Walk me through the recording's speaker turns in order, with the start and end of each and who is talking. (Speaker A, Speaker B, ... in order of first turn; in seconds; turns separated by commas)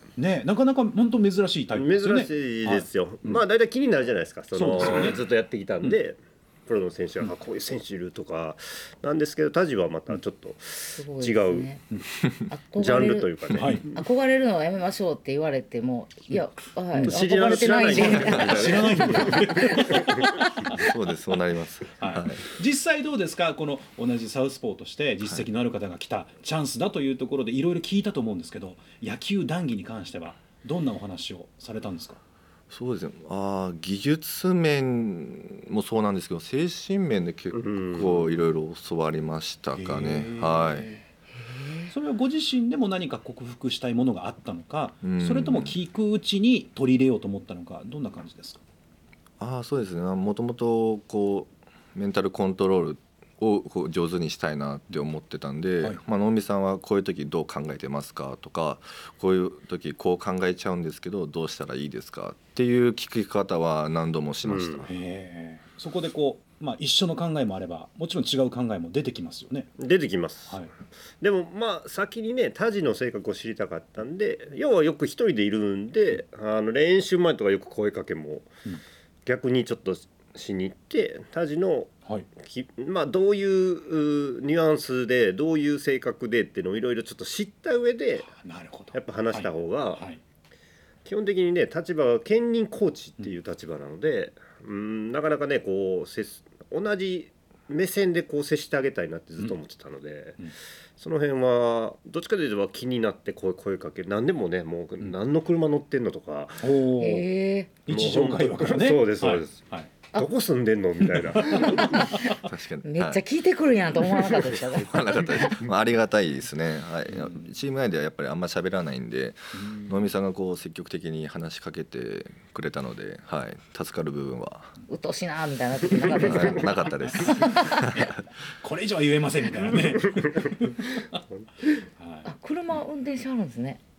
Speaker A: 0.2-3.4, Speaker B: 1.7-11.7, Speaker A: 4.5-5.2, Speaker C: 11.0-11.8, Speaker C: 12.5-13.3, Speaker B: 12.8-14.0, Speaker A: 13.5-13.9, Speaker C: 13.9-19.8, Speaker A: 16.9-20.9, Speaker B: 17.1-20.3, Speaker D: 20.7-22.5, Speaker A: 22.0-32.2, Speaker D: 32.7-40.9, Speaker B: 37.5-38.4, Speaker A: 39.8-41.0, Speaker C: 41.4-41.9, Speaker A: 41.9-48.6, Speaker D: 45.0-45.8, Speaker D: 49.4-64.9, Speaker B: 64.5-64.9, Speaker A: 64.8-69.7, Speaker B: 69.8-70.6, Speaker B: 71.2-78.5, Speaker B: 79.3-88.3, Speaker A: 88.3-90.2, Speaker B: 88.9-90.0, Speaker B: 91.1-100.4, Speaker B: 101.0-106.7, Speaker A: 106.6-107.3, Speaker C: 107.0-107.7, Speaker A: 107.9-109.9, Speaker B: 107.9-109.6, Speaker B: 110.1-112.2, Speaker A: 111.2-112.4, Speaker C: 111.6-115.6, Speaker D: 112.3-113.2, Speaker D: 114.6-124.7, Speaker A: 117.1-117.4, Speaker A: 119.5-120.0, Speaker C: 124.9-127.9, Speaker D: 126.2-128.2, Speaker A: 127.1-131.2, Speaker B: 130.0-130.5, Speaker B: 131.2-131.8, Speaker A: 132.0-132.3, Speaker C: 132.2-133.8